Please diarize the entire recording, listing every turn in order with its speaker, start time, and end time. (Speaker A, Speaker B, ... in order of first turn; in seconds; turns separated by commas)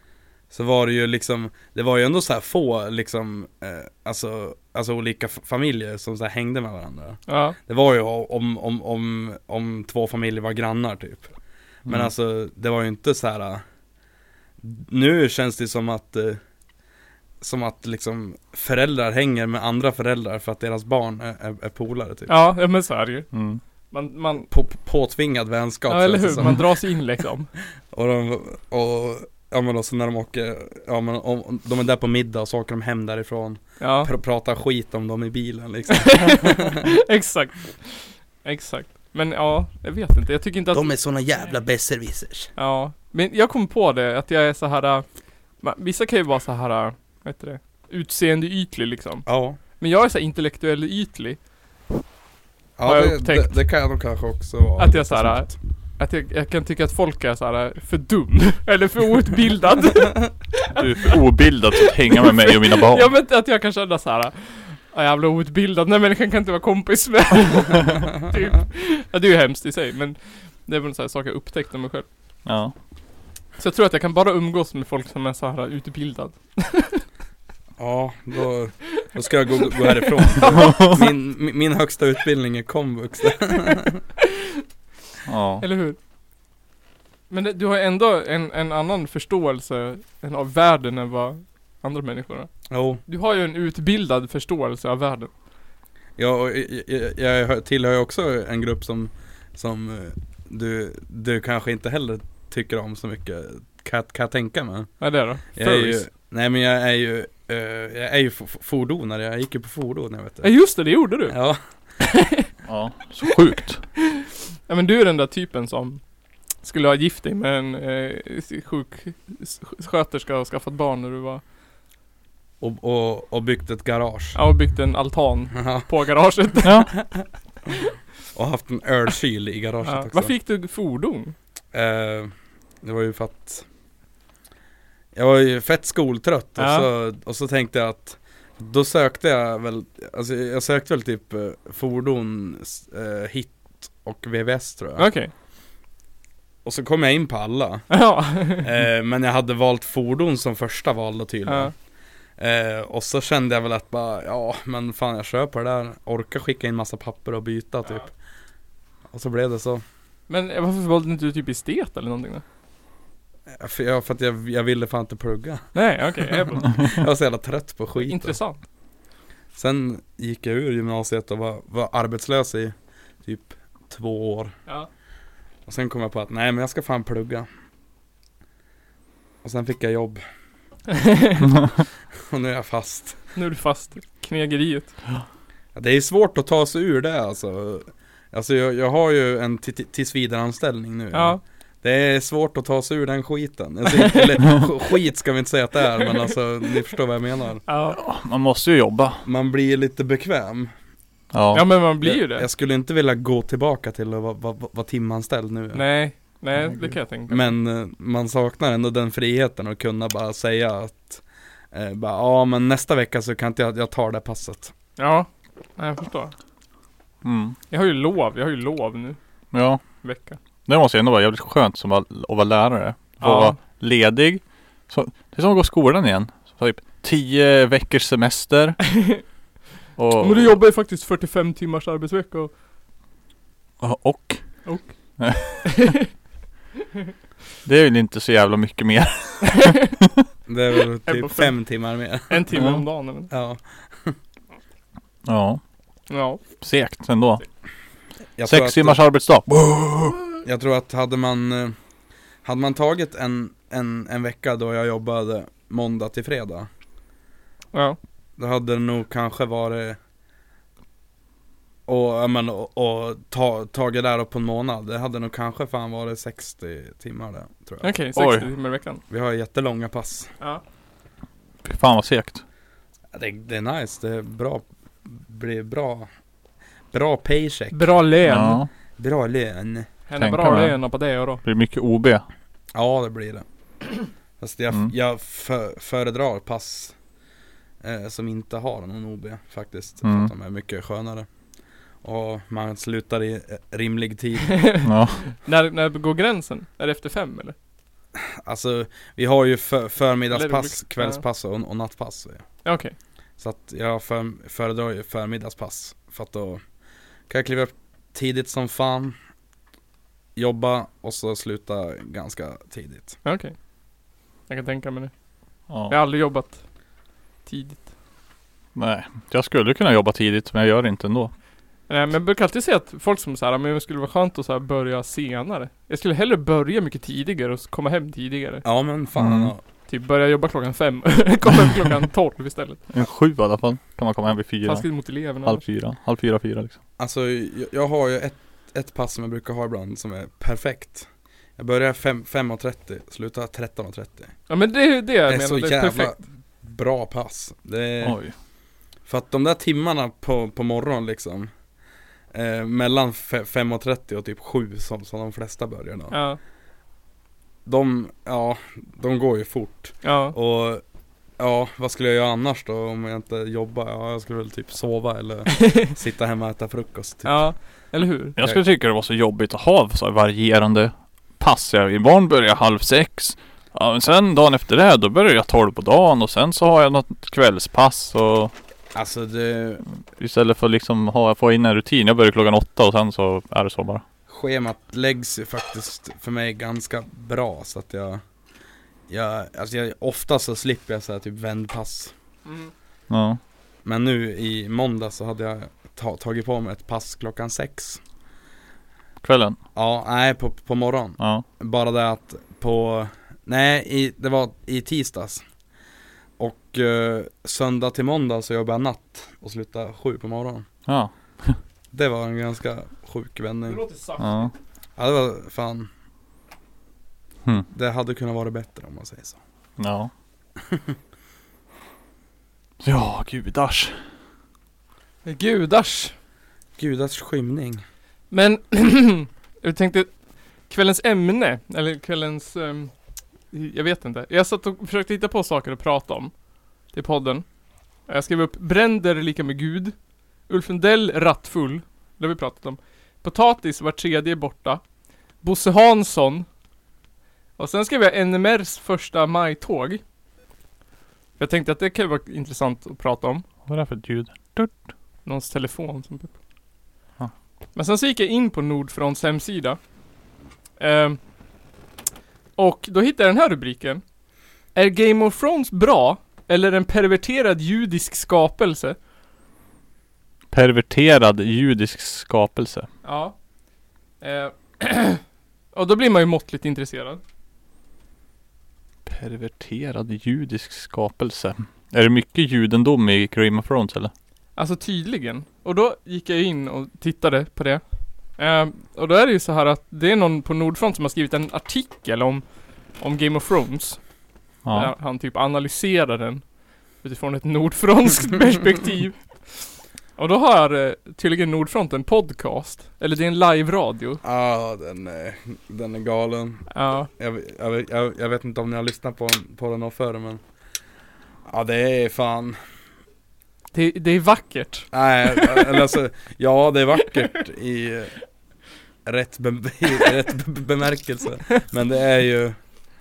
Speaker A: 0.5-11.3, Speaker B: 7.3-7.6, Speaker A: 11.9-13.6, Speaker A: 14.6-16.4, Speaker A: 17.4-22.3, Speaker B: 22.3-23.3, Speaker C: 23.3-23.6, Speaker B: 23.9-24.5, Speaker A: 24.5-26.7, Speaker B: 25.9-27.5, Speaker A: 27.9-36.8, Speaker B: 33.8-34.1, Speaker B: 36.0-40.9, Speaker A: 40.7-42.5, Speaker B: 42.6-45.0, Speaker B: 45.6-51.4, Speaker A: 49.3-49.6, Speaker A: 52.8-55.6, Speaker B: 52.9-53.5, Speaker B: 54.8-60.9, Speaker C: 60.8-63.1, Speaker B: 62.5-72.1, Speaker C: 72.5-72.7, Speaker B: 73.6-77.0, Speaker A: 77.8-84.0, Speaker B: 80.4-80.9, Speaker C: 85.3-85.6, Speaker B: 85.6-86.0, Speaker B: 87.3-92.5, Speaker A: 92.7-93.0, Speaker B: 93.1-95.3, Speaker A: 96.2-104.9, Speaker B: 105.0-106.0, Speaker A: 105.5-110.5, Speaker B: 110.4-111.4, Speaker A: 111.3-111.6, Speaker B: 112.0-112.5, Speaker C: 112.7-113.9, Speaker B: 114.7-116.0, Speaker B: 116.6-121.4, Speaker A: 122.6-124.4, Speaker B: 124.3-126.8, Speaker A: 125.5-125.9, Speaker C: 126.6-126.9, Speaker A: 128.3-130.3, Speaker B: 129.8-131.3, Speaker A: 131.7-133.7, Speaker A: 135.2-145.1, Speaker B: 136.6-136.9, Speaker B: 145.0-145.3, Speaker A: 146.7-147.9, Speaker B: 147.9-148.7, Speaker A: 148.6-151.7, Speaker B: 151.5-151.7, Speaker A: 152.4-158.1, Speaker A: 159.1-159.8, Speaker B: 160.3-162.4, Speaker A: 163.5-165.7, Speaker B: 165.8-166.9, Speaker A: 166.3-168.4, Speaker B: 168.0-168.6, Speaker A: 169.6-174.6, Speaker A: 175.7-177.5, Speaker A: 179.4-180.2, Speaker B: 180.9-181.5, Speaker A: 182.3-183.2, Speaker B: 183.3-185.0, Speaker A: 185.8-197.6, Speaker B: 191.1-191.4, Speaker B: 197.7-198.0, Speaker C: 197.9-199.2, Speaker A: 199.2-200.7, Speaker C: 201.3-201.7, Speaker B: 201.5-202.5, Speaker A: 202.0-205.8, Speaker B: 205.7-207.5, Speaker C: 206.6-206.9, Speaker A: 207.3-214.7, Speaker B: 215.0-216.3, Speaker C: 217.2-217.6, Speaker B: 217.7-219.2, Speaker C: 219.5-219.8, Speaker B: 220.0-220.4, Speaker C: 220.7-228.9, Speaker B: 223.2-223.6, Speaker C: 230.0-230.5, Speaker B: 230.2-232.5, Speaker C: 233.8-234.7, Speaker B: 234.7-234.9, Speaker C: 235.2-235.9, Speaker C: 237.6-239.8, Speaker A: 240.5-242.5, Speaker B: 241.1-241.5, Speaker B: 242.3-243.3, Speaker A: 243.3-244.2, Speaker C: 245.3-245.6, Speaker B: 246.1-246.4, Speaker C: 246.6-247.4, Speaker A: 248.4-249.0, Speaker C: 248.5-250.2, Speaker A: 250.4-251.8, Speaker A: 252.4-256.7, Speaker B: 257.7-258.0, Speaker A: 258.4-260.0, Speaker A: 261.9-267.9, Speaker B: 267.8-269.0, Speaker C: 268.2-268.5, Speaker A: 269.1-270.3, Speaker C: 271.6-272.4, Speaker A: 273.1-276.1, Speaker A: 276.9-278.0, Speaker B: 277.7-278.6, Speaker C: 278.2-278.7, Speaker A: 279.0-279.9, Speaker B: 280.1-281.4, Speaker C: 280.2-280.8, Speaker C: 281.4-282.2, Speaker A: 282.7-283.4, Speaker A: 284.4-286.9, Speaker A: 287.8-291.3, Speaker C: 290.0-290.3, Speaker A: 292.0-294.6, Speaker B: 294.6-297.6, Speaker C: 294.8-295.2, Speaker A: 298.2-302.5, Speaker B: 300.3-301.2, Speaker B: 302.6-302.9, Speaker A: 303.4-306.6, Speaker A: 307.3-309.2, Speaker A: 310.4-313.2, Speaker B: 313.2-313.5, Speaker B: 314.5-315.1, Speaker C: 315.7-315.9, Speaker B: 315.9-316.6, Speaker B: 317.5-317.9, Speaker C: 318.8-321.3, Speaker B: 321.9-328.6, Speaker A: 328.6-329.6, Speaker C: 329.2-329.5, Speaker B: 329.9-332.8, Speaker C: 332.9-336.8, Speaker B: 334.7-335.6, Speaker A: 337.0-344.4, Speaker B: 344.5-346.1, Speaker A: 345.3-348.2, Speaker C: 348.0-348.3, Speaker A: 349.1-351.5, Speaker A: 352.3-356.2, Speaker B: 356.1-356.4, Speaker A: 357.7-360.8, Speaker B: 360.0-360.4, Speaker A: 361.4-367.4, Speaker B: 367.2-368.4, Speaker C: 368.4-378.5, Speaker A: 378.9-379.8, Speaker C: 380.2-384.0, Speaker A: 384.3-388.2, Speaker A: 389.1-392.1, Speaker B: 392.5-392.7, Speaker C: 393.1-393.4, Speaker A: 393.9-398.0, Speaker C: 399.2-399.6, Speaker A: 399.8-405.4, Speaker C: 401.2-401.4, Speaker A: 406.4-410.7, Speaker C: 410.9-411.6, Speaker A: 411.9-413.8, Speaker B: 413.7-414.5, Speaker C: 414.2-414.5, Speaker A: 415.0-415.9, Speaker A: 417.7-419.4, Speaker C: 419.8-420.1, Speaker C: 422.8-424.0, Speaker B: 425.2-426.1, Speaker A: 426.8-427.8, Speaker B: 428.3-430.1, Speaker B: 430.7-432.9, Speaker B: 433.5-436.3, Speaker B: 436.9-437.4, Speaker B: 438.1-440.0, Speaker B: 440.5-444.8, Speaker B: 445.4-446.5, Speaker B: 447.6-450.0, Speaker B: 451.4-453.4, Speaker C: 453.7-454.7, Speaker B: 455.3-456.4, Speaker B: 457.8-459.8, Speaker B: 460.8-461.2, Speaker B: 462.6-464.0, Speaker B: 464.8-469.0, Speaker C: 470.5-472.9, Speaker B: 473.0-473.4, Speaker B: 474.2-475.2, Speaker B: 475.7-477.2, Speaker C: 479.1-484.1, Speaker B: 484.6-487.8, Speaker B: 488.4-492.4, Speaker B: 493.0-494.0, Speaker C: 494.6-494.9, Speaker B: 494.7-496.4, Speaker B: 497.0-499.6, Speaker B: 500.2-504.2, Speaker A: 504.2-510.4, Speaker B: 506.7-507.1, Speaker A: 511.5-512.6, Speaker B: 513.7-515.8, Speaker A: 514.9-518.2, Speaker A: 519.1-522.6